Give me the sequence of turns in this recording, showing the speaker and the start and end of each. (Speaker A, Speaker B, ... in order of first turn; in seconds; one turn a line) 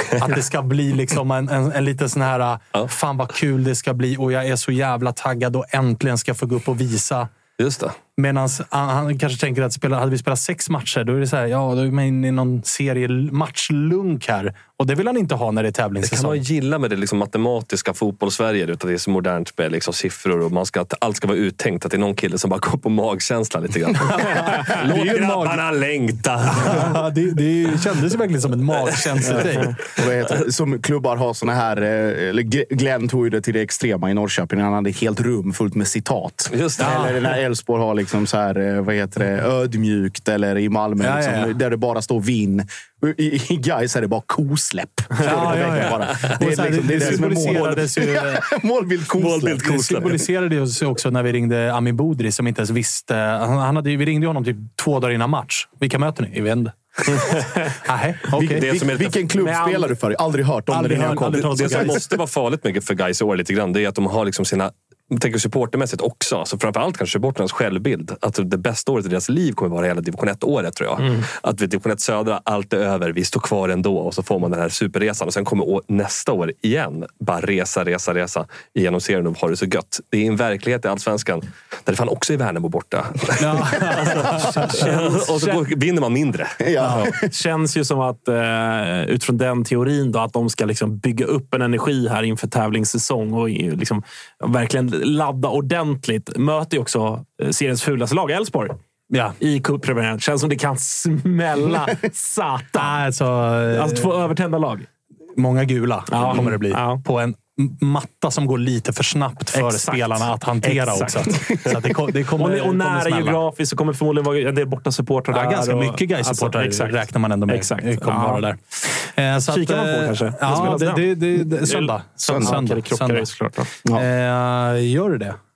Speaker A: 0.1-7.3
Speaker B: 7.6-8.0
Speaker A: 8.2-16.4
Speaker B: 16.0-26.9
Speaker A: 24.4-25.6
Speaker A: 26.5-29.7
Speaker C: 29.3-50.2
Speaker B: 36.5-37.1
Speaker A: 36.8-37.1
Speaker A: 41.0-41.5
Speaker A: 45.2-48.4
Speaker B: 47.0-47.7
Speaker B: 49.2-50.1
Speaker A: 49.3-57.3
Speaker A: 57.8-58.6
Speaker C: 58.3-62.0
Speaker B: 58.6-59.2
Speaker D: 59.4-59.9
Speaker A: 60.7-62.0
Speaker B: 61.3-86.6
Speaker D: 71.0-71.2
Speaker A: 83.4-84.8
Speaker D: 84.7-85.6
Speaker C: 86.6-87.2
Speaker D: 87.2-98.8
Speaker A: 99.1-99.4
Speaker D: 99.4-103.0
Speaker A: 102.8-104.1
Speaker D: 103.7-104.9
Speaker A: 105.4-113.4
Speaker D: 106.1-107.0
Speaker D: 109.5-111.6
Speaker D: 112.4-118.4
Speaker A: 115.3-118.6
Speaker A: 119.1-123.3
Speaker D: 119.5-123.7
Speaker C: 122.3-122.5
Speaker A: 123.9-125.4